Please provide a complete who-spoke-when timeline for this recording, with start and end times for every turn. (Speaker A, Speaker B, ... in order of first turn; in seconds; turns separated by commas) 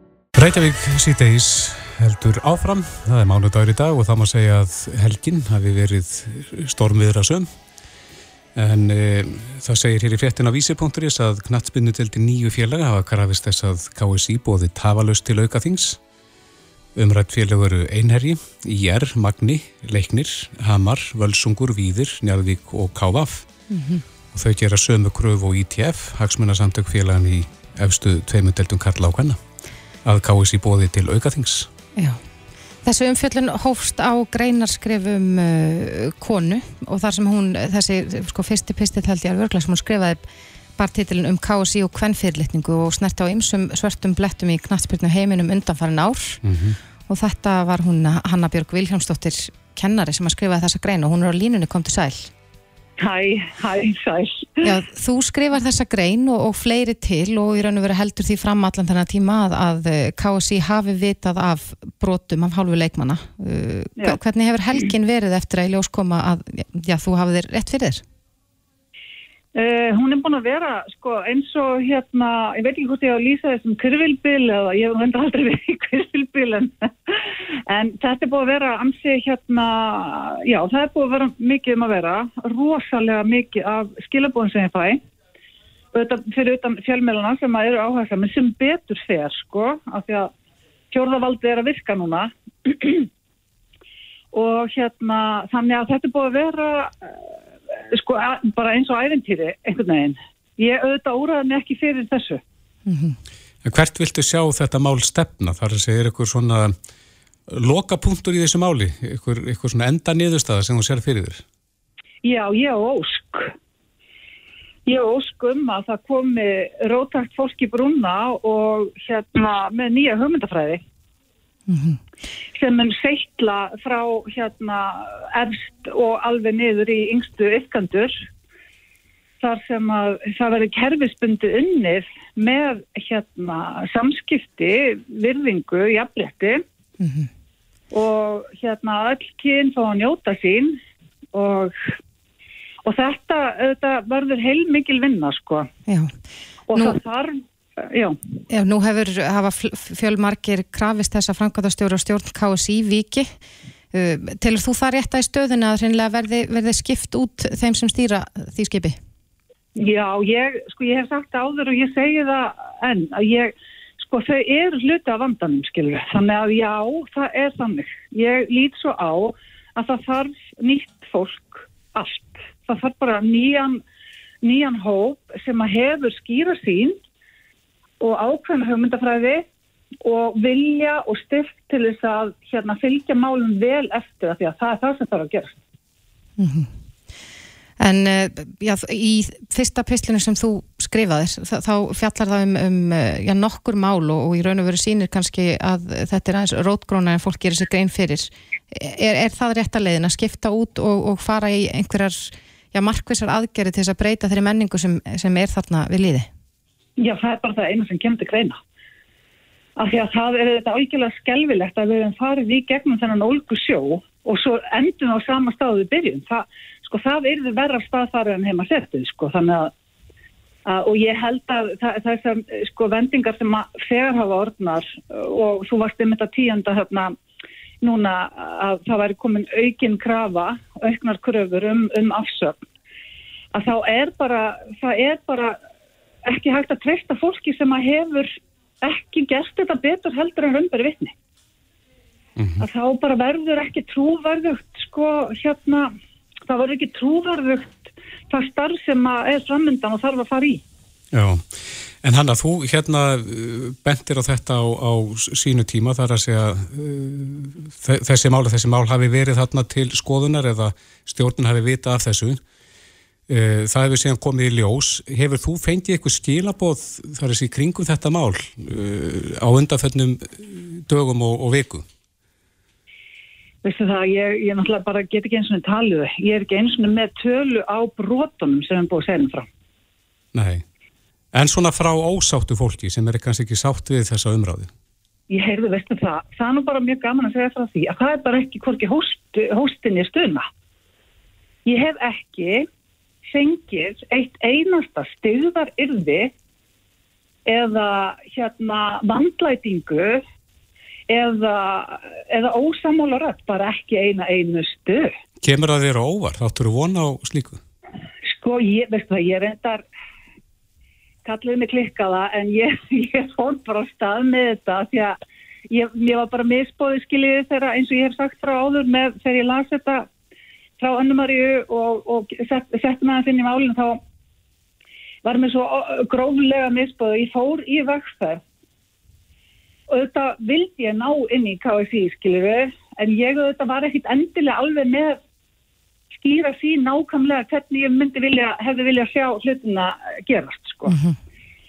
Speaker A: 0.3-7.5, Speaker A: 8.6-16.0, Speaker A: 17.0-23.5, Speaker B: 23.7-24.0, Speaker A: 24.3-29.4, Speaker A: 30.1-31.7, Speaker B: 32.0-32.2, Speaker B: 32.8-46.4, Speaker A: 46.4-46.8, Speaker B: 47.1-52.3, Speaker C: 53.0-54.6, Speaker B: 54.6-68.0, Speaker C: 69.5-77.2, Speaker C: 77.7-85.0, Speaker C: 85.9-90.3, Speaker C: 90.9-93.1, Speaker C: 94.3-97.2, Speaker C: 97.9-102.4, Speaker B: 102.9-103.2, Speaker A: 103.7-106.8, Speaker A: 107.5-111.4, Speaker C: 112.2-113.5, Speaker C: 114.9-120.8, Speaker B: 121.7-122.0, Speaker C: 122.5-128.2, Speaker C: 129.4-136.6, Speaker B: 137.0-137.3, Speaker C: 137.9-140.8, Speaker C: 141.3-141.9, Speaker C: 142.8-145.7, Speaker B: 145.9-146.1, Speaker C: 146.7-148.2, Speaker B: 146.7-147.0, Speaker B: 148.5-153.3, Speaker B: 153.9-159.0, Speaker C: 159.8-173.8, Speaker C: 174.4-177.0, Speaker C: 178.0-179.4, Speaker C: 180.0-185.6, Speaker B: 186.4-186.7, Speaker B: 187.8-206.3, Speaker C: 207.0-208.6, Speaker C: 209.8-219.7, Speaker C: 220.7-227.2, Speaker C: 227.8-232.6, Speaker C: 233.5-235.6, Speaker C: 236.3-241.1, Speaker A: 242.4-242.6, Speaker C: 242.6-245.9, Speaker C: 246.5-250.6, Speaker A: 251.1-262.4, Speaker A: 263.3-271.9, Speaker C: 273.6-279.5, Speaker A: 280.3-280.6, Speaker A: 281.3-284.7, Speaker C: 285.3-290.5, Speaker C: 291.6-292.7, Speaker C: 293.3-296.3, Speaker C: 297.5-300.2, Speaker C: 301.1-305.1, Speaker A: 305.4-307.6, Speaker C: 308.3-309.8, Speaker C: 311.2-315.2, Speaker C: 315.7-320.1, Speaker C: 320.8-324.0, Speaker C: 325.2-328.4, Speaker C: 329.9-335.2, Speaker C: 336.2-341.0, Speaker B: 340.9-341.2